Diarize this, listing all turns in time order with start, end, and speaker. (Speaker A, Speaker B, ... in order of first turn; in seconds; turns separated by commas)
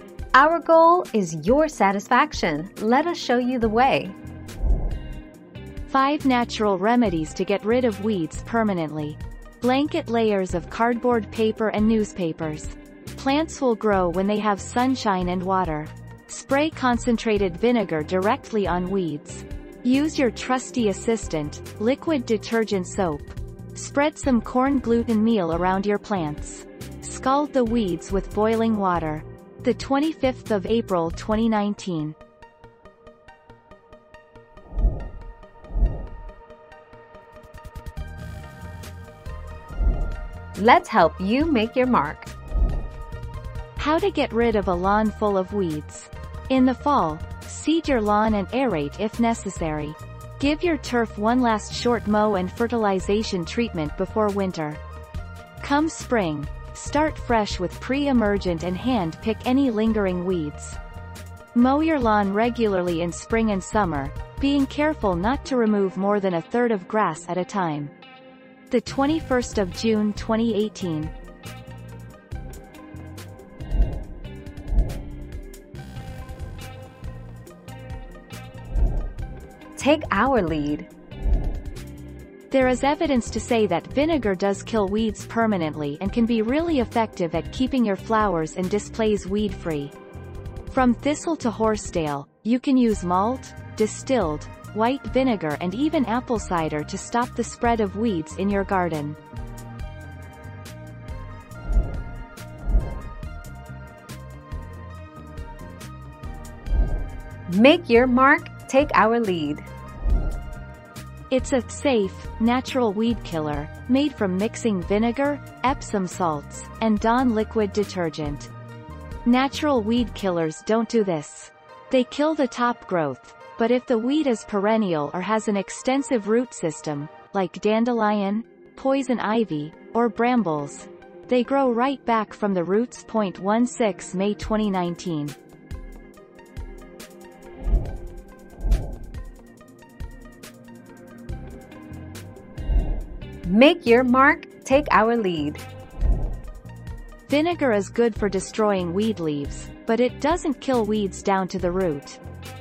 Speaker A: 0.3-4.2, Speaker B: 5.9-32.2, Speaker A: 40.6-42.3, Speaker B: 43.8-54.8, Speaker B: 55.6-60.8, Speaker B: 61.5-67.9, Speaker B: 68.7-71.1, Speaker A: 79.8-80.9, Speaker B: 82.5-89.9, Speaker B: 90.7-99.2, Speaker A: 107.5-109.7, Speaker B: 111.3-118.5, Speaker B: 119.2-135.4, Speaker A: 143.4-145.6, Speaker B: 147.3-152.2